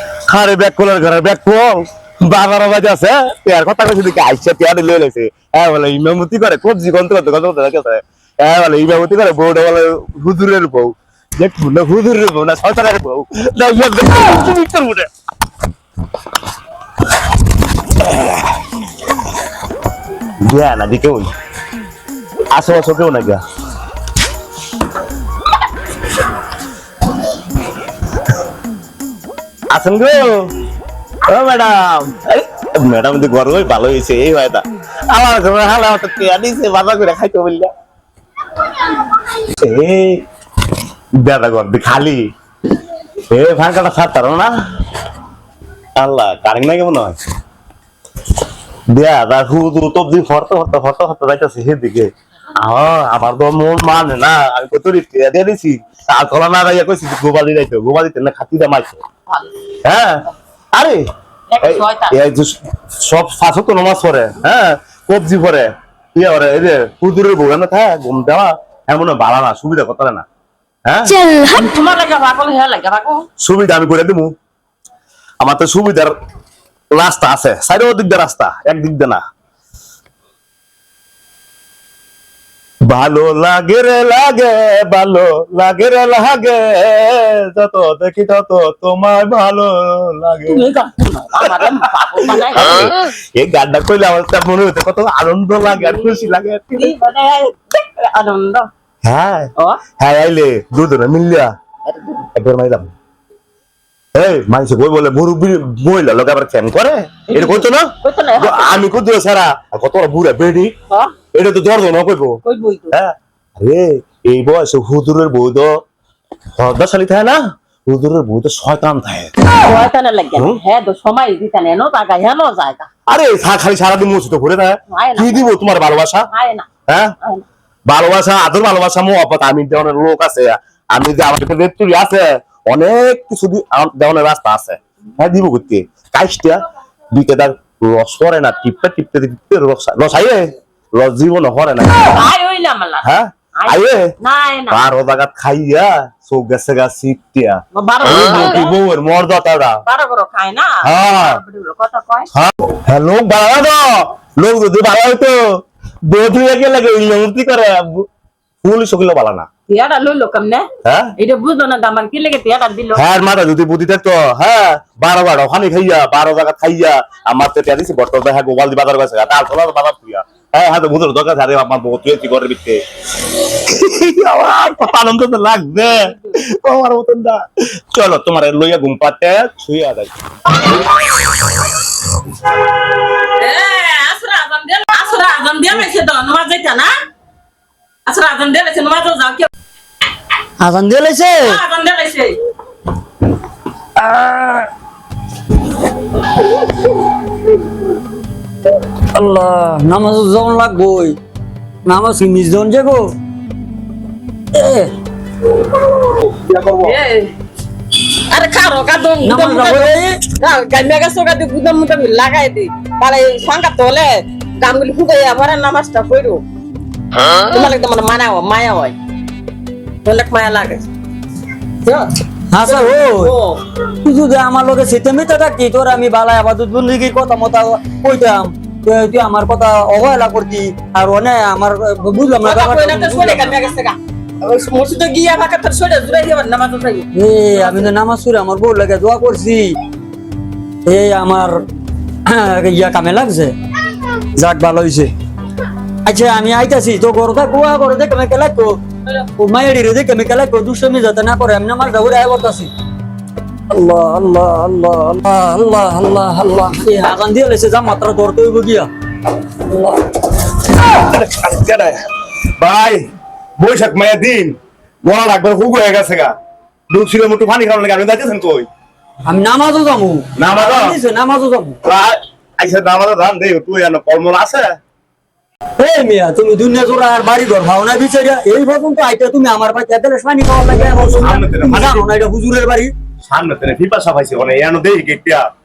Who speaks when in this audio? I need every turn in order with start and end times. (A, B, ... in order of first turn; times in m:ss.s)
0:00.3-0:15.1 A
0:18.0-0:18.5 A
0:20.4-0:21.3 A
0:22.5-0:23.4 A
0:29.7-0:30.4 A
0:31.3-0:37.7 A
0:39.3-0:40.2 A
0:41.2-0:42.2 A
0:43.3-0:44.5 A
0:46.0-0:47.2 A
0:48.9-0:52.1 A
0:52.6-0:59.0 A
0:59.8-1:01.1 A
1:01.5-1:02.2 B
1:01.6-1:10.2 A
1:10.9-1:11.2 A
1:11.3-1:13.3 B
1:13.4-1:14.3 A
1:15.4-1:16.2 A
1:16.9-1:19.2 A
1:22.8-1:30.6 A
1:30.5-1:32.9 B
1:31.5-1:36.9 A
1:35.7-1:38.7 B
1:39.0-1:41.5 A
1:39.6-1:39.8 B
1:41.9-1:42.1 B
1:42.3-1:42.9 A
1:44.2-1:50.7 A
1:47.3-1:48.8 B
1:50.9-1:51.2 B
1:51.3-1:52.4 A
1:52.4-1:53.0 B
1:52.9-1:55.8 A
1:56.6-1:59.3 A
1:59.6-2:02.9 B
2:03.1-2:06.3 A
2:04.9-2:05.6 B
2:06.3-2:06.7 B
2:06.9-2:07.2 A
2:07.9-2:16.6 A
2:17.1-2:22.2 A
2:22.1-2:24.8 B
2:23.0-2:24.1 A
2:24.7-2:29.8 A
2:27.7-2:28.8 B
2:29.9-2:32.3 B
2:30.8-2:31.4 A
2:32.3-2:35.4 A
2:36.0-2:38.1 A
2:38.6-2:39.5 A
2:39.7-2:43.1 B
2:40.8-2:41.1 A
2:43.0-3:00.1 A
3:03.2-3:06.9 B
3:08.1-3:09.5 B
3:10.6-3:11.6 C
3:11.4-3:12.4 B
3:14.0-3:14.7 C
3:19.1-3:21.2 C
3:21.8-3:23.1 C
3:24.5-3:24.9 C
3:26.3-3:26.9 A
3:26.6-3:27.3 B
3:28.1-3:36.4 B
3:29.2-3:30.2 C
3:37.2-3:39.0 B
3:40.0-3:40.9 B
3:41.8-3:42.1 B
3:42.5-3:43.3 C
3:42.6-3:43.6 B
3:44.0-3:53.6 C
3:52.4-3:57.9 B
3:57.1-3:59.8 C
4:00.9-4:01.6 C
4:02.3-4:03.5 C
4:04.4-4:05.1 C
4:06.0-4:12.7 C
4:13.7-4:18.9 C
4:19.6-4:20.0 C
4:20.9-4:22.1 A
4:22.6-4:23.0 A
4:23.6-4:26.3 A
4:26.9-4:28.7 A
4:29.3-4:31.8 C
4:30.4-4:31.0 A
4:31.8-4:34.7 A
4:35.8-4:42.9 C
4:40.6-4:42.1 A
4:43.3-4:45.5 A